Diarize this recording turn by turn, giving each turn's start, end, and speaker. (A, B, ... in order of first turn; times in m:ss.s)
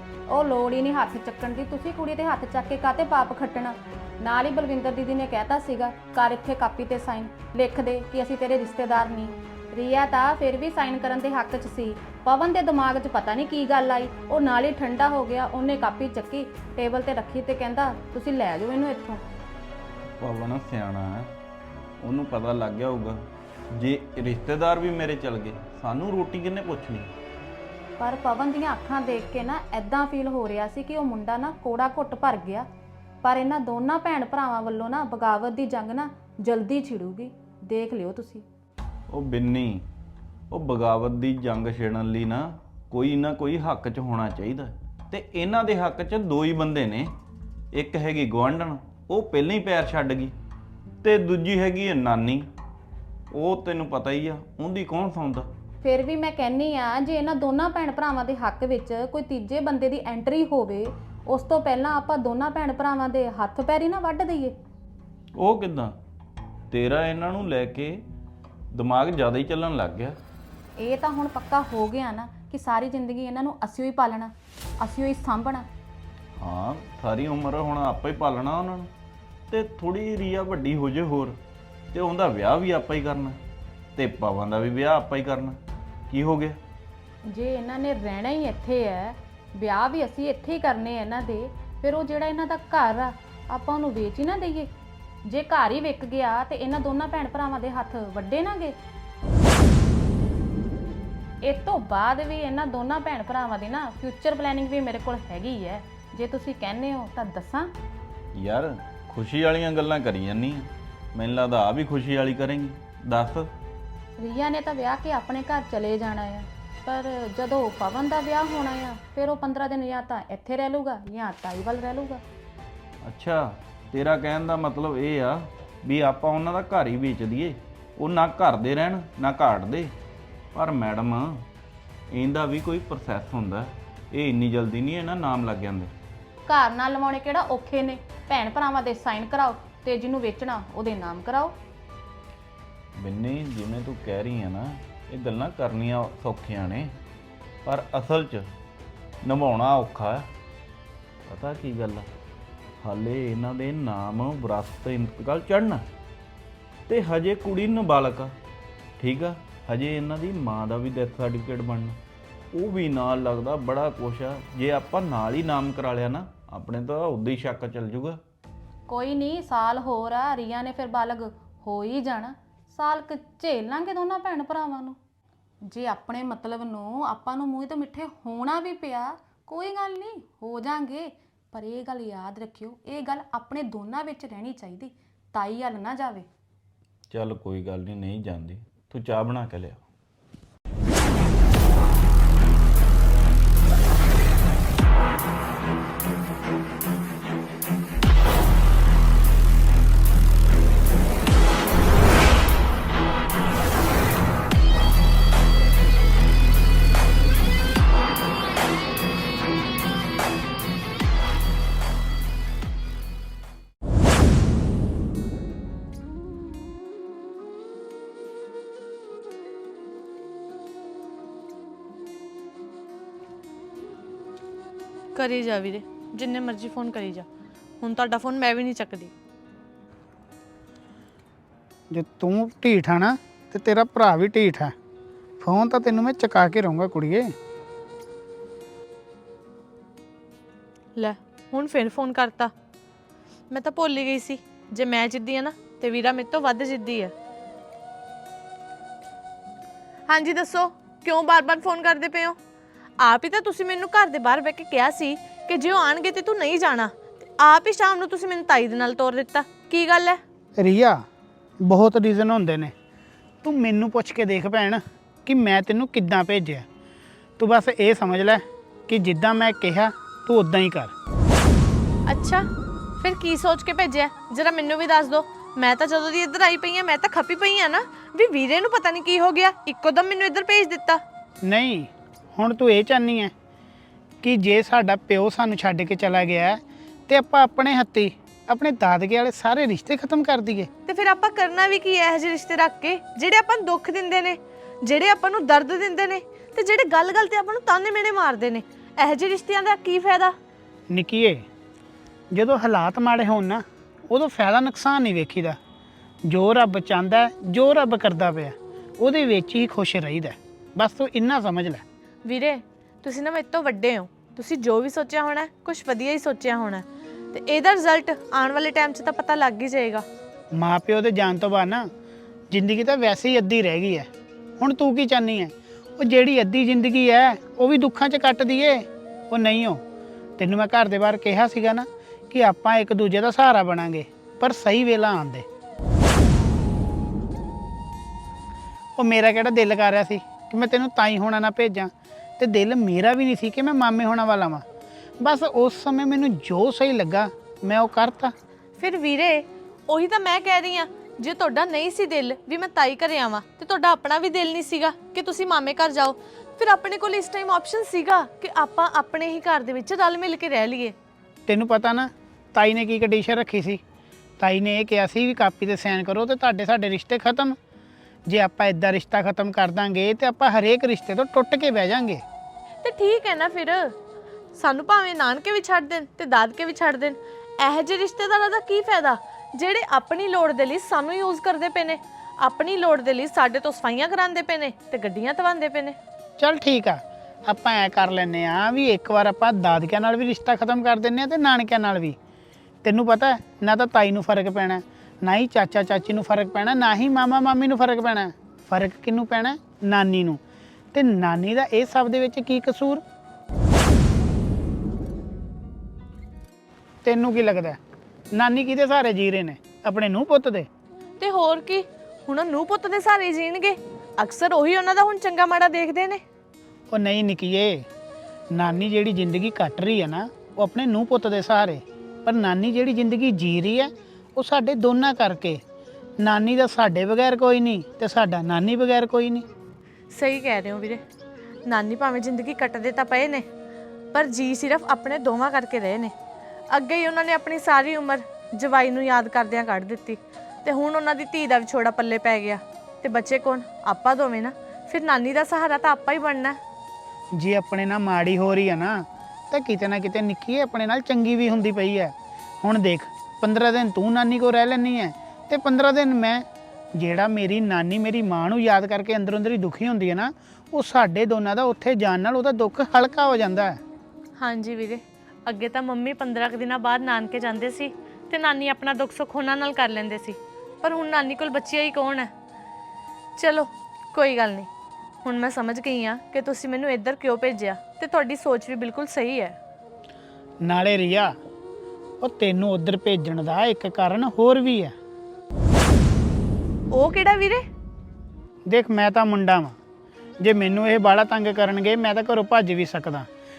0:00.3-0:19.2 A
0:20.2-0:21.3 B
0:22.0-0:23.2 B
0:23.7-0:27.1 B
0:28.0-0:32.7 A
0:33.2-0:38.4 A
0:39.1-0:39.8 B
0:40.5-0:47.1 B
0:47.7-0:50.3 B
0:51.0-0:52.5 B
0:53.3-0:55.5 B
0:55.8-1:04.6 A
1:05.4-1:06.0 B
1:06.7-1:08.0 B
1:08.7-1:10.2 B
1:10.8-1:15.6 A
1:16.4-1:18.9 B
1:19.5-1:21.4 B
1:21.9-1:23.4 B
1:24.0-1:25.6 B
1:26.1-1:26.6 B
1:27.3-1:34.7 A
1:35.3-1:38.8 A
1:41.4-1:47.7 A
1:48.4-1:53.5 B
1:54.2-2:02.2 A
2:03.0-2:09.9 B
2:10.5-2:11.4 B
2:12.1-2:15.9 B
2:16.5-2:21.5 A
2:23.0-2:26.9 B
2:27.6-2:28.5 B
2:29.2-2:30.3 B
2:31.3-2:32.1 B
2:32.8-2:35.9 B
2:36.9-2:38.4 B
2:39.0-2:42.0 B
2:42.5-2:48.2 B
2:48.9-2:55.0 A
2:55.6-3:06.3 A
3:07.1-3:09.8 B
3:45.2-3:47.3 C
3:47.8-3:49.1 C
3:51.9-3:54.8 D
3:55.4-3:57.3 D
4:01.0-4:02.5 C
4:03.5-4:07.1 C
4:10.1-4:12.4 C
4:13.0-4:20.2 C
4:20.6-4:21.0 D
4:21.6-4:22.7 D
4:23.4-4:26.7 D
4:27.4-4:30.9 D
4:32.1-4:32.4 C
4:33.0-4:41.0 C
4:41.4-4:43.3 D
4:44.2-4:50.7 D
4:50.9-5:00.3 C
5:00.9-5:01.4 D
5:02.3-5:05.6 D
5:06.3-5:11.8 D
5:12.2-5:20.0 C
5:20.5-5:21.9 D
5:22.5-5:24.1 D
5:24.6-5:29.8 D
5:30.4-5:35.5 D
5:39.0-5:44.6 D
5:45.2-5:48.3 D
5:48.8-6:01.0 C
6:01.5-6:03.8 D
6:04.4-6:07.6 D
6:08.3-6:12.2 D
6:12.8-6:13.9 C
6:14.5-6:26.0 C
6:26.4-6:32.2 D
6:32.8-6:40.4 D
6:40.9-6:43.0 D
6:47.0-6:47.8 D
6:48.3-6:50.7 D
6:51.2-6:56.2 C
6:56.9-6:57.9 D
6:58.5-7:05.6 D
7:06.2-7:09.5 D
7:10.1-7:11.0 C
7:11.7-7:13.5 C
7:14.1-7:16.2 C
7:16.7-7:26.6 C
7:27.4-7:43.8 D
7:44.4-7:52.3 C
7:53.4-7:54.7 C
7:55.2-7:59.6 C
8:00.6-8:01.3 D
8:02.2-8:04.9 D
8:06.9-8:07.6 C
8:08.7-8:09.8 D
8:10.4-8:13.3 D